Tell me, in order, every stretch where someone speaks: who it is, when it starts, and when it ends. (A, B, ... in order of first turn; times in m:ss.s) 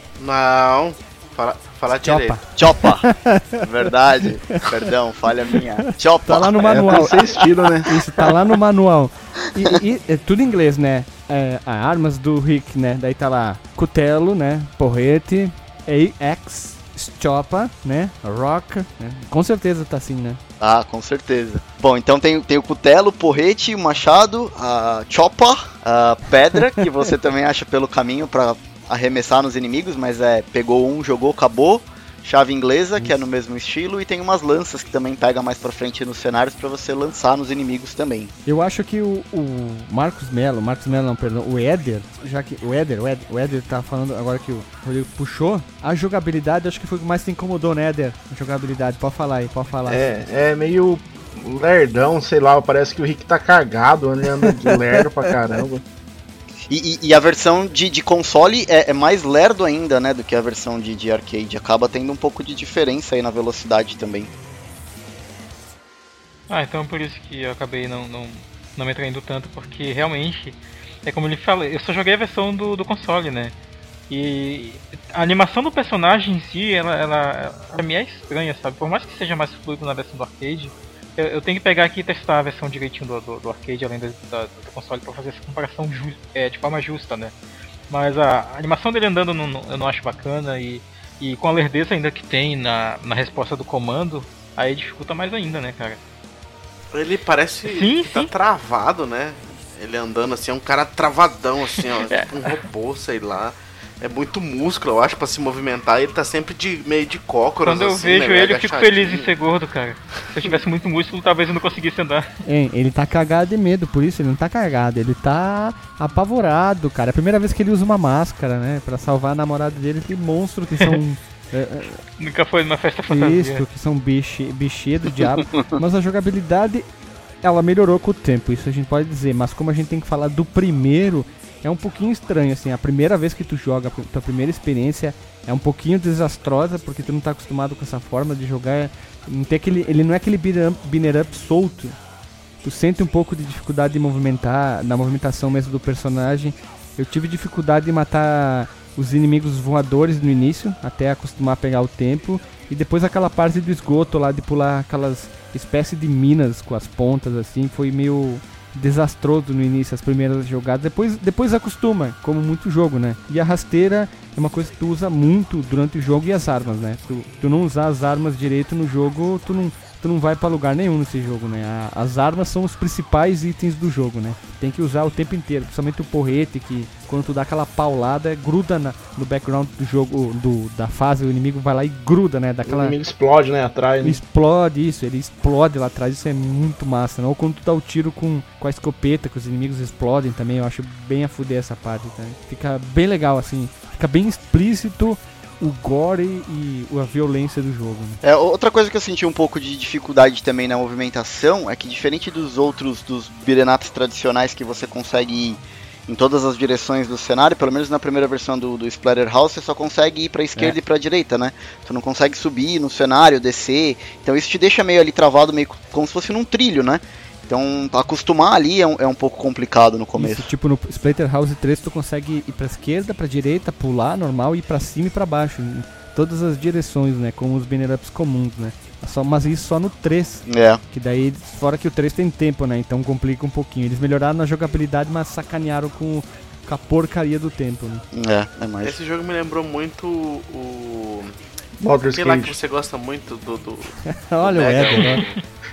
0:00.2-0:02.4 A
0:01.9-0:03.9 B
0:02.6-0:03.0 C
0:03.6-0:07.0 C
0:04.5-0:04.9 B
0:05.5-0:07.2 B
0:06.6-0:07.9 D
0:07.8-0:20.4 B
0:20.6-0:38.3 C
0:38.4-0:50.1 B
0:49.9-0:55.8 D
0:54.4-0:55.0 B
0:56.6-1:04.3 C
1:06.5-1:13.5 E
1:14.1-1:27.3 E
1:27.9-1:36.0 E
1:36.9-1:49.3 A
1:37.6-1:38.3 E
1:41.8-1:42.6 E
1:47.6-1:52.3 E
1:52.4-2:02.0 B
2:02.2-2:03.6 E
2:03.1-2:06.8 B
2:07.4-2:22.0 B
2:22.6-3:03.0 B
3:02.7-3:04.2 D
3:04.0-3:18.2 B
3:18.2-3:40.5 C
3:40.1-3:58.0 B
3:50.4-3:50.8 C
3:58.1-3:58.9 C
3:58.8-4:01.3 A
4:01.8-4:02.6 D
4:02.1-4:05.4 A
4:04.1-4:05.2 B
4:04.9-4:05.3 E